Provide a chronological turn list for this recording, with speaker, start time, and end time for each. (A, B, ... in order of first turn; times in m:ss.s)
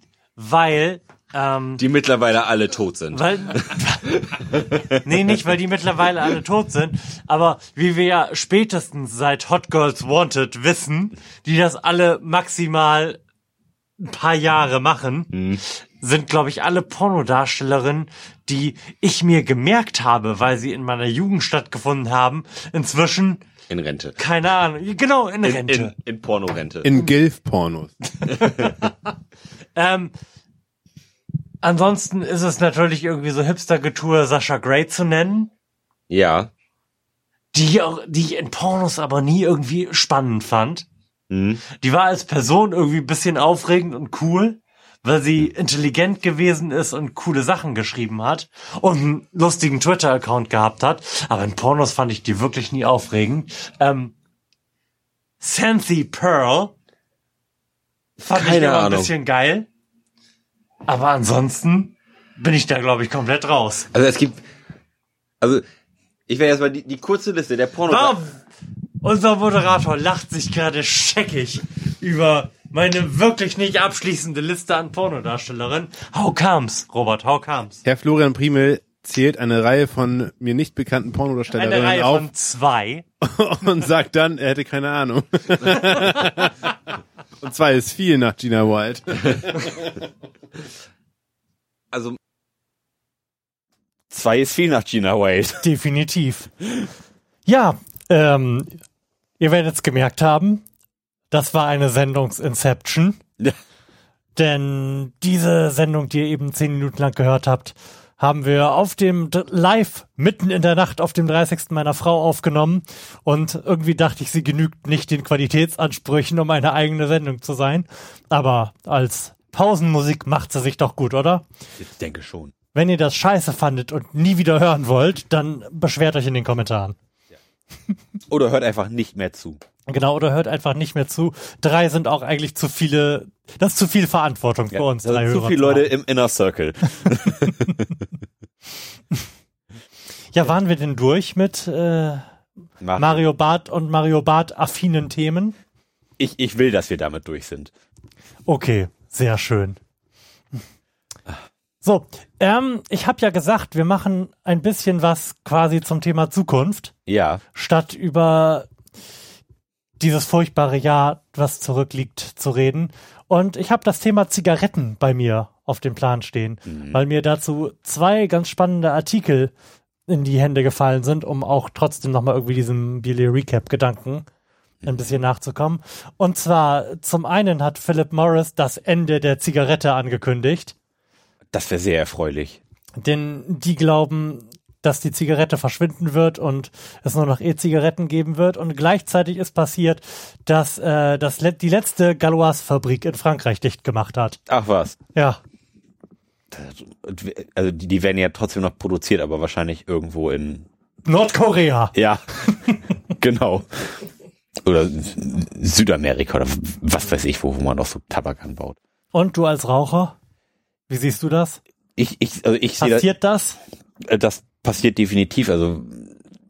0:00.4-0:01.8 A
0:01.8-0:05.0 B
0:03.1-0:04.1 A
0:05.0-0:13.2 A
0:14.0-0:15.3 A
0:15.3-0:15.6 B
0:16.0-0:23.4 A
0:23.7-0:24.2 B
0:24.2-0:25.9 A
0:25.4-0:26.9 B
0:26.8-0:28.0 C
0:28.3-0:28.7 B
0:29.8-0:30.1 A
0:31.6-0:35.5 A
0:36.1-0:36.5 B
0:37.5-0:40.9 A
0:41.3-0:41.6 B
0:41.8-0:54.1 A
0:55.4-0:56.7 A
0:58.2-0:59.1 B
0:58.3-0:59.7 A
1:00.9-1:03.9 A
1:03.9-1:04.4 B
1:05.4-1:05.7 B
1:06.3-1:08.2 B
1:07.9-1:08.3 A
1:09.0-1:17.8 A
1:17.8-1:22.3 C
1:21.5-1:23.0 A
1:23.2-1:26.6 C
1:27.4-1:29.9 C
1:31.9-1:32.2 B
1:34.1-1:35.7 B
1:35.6-1:36.5 A
1:36.6-1:36.9 B
1:37.5-1:38.8 A
1:39.4-1:40.6 A
1:41.3-1:43.2 A
1:44.4-2:01.4 A
2:01.8-2:02.5 B
2:02.7-2:07.0 A
2:08.3-2:09.6 B
2:09.9-2:15.9 A
2:14.7-2:18.0 B
2:20.3-2:22.2 A
2:22.8-2:23.2 B
2:23.0-2:25.6 A
2:26.2-2:27.7 B
2:28.5-2:29.8 A
2:31.8-2:36.9 A
2:37.1-2:37.4 B
2:37.5-2:38.7 A
2:40.0-2:49.5 A
2:46.7-2:47.0 B
2:50.1-2:54.3 A
2:54.8-3:00.8 A
3:01.5-3:02.6 B
3:03.0-3:14.4 A
3:14.5-3:15.0 B
3:15.2-3:15.4 A
3:16.5-3:20.7 B
3:21.0-3:22.0 A
3:21.9-3:22.4 B
3:22.5-3:22.8 A
3:23.2-3:24.1 B
3:24.6-3:28.8 B
3:29.1-3:30.1 A
3:30.9-3:31.6 A
3:32.0-3:33.1 B
3:32.8-3:33.6 A
3:34.0-3:36.2 B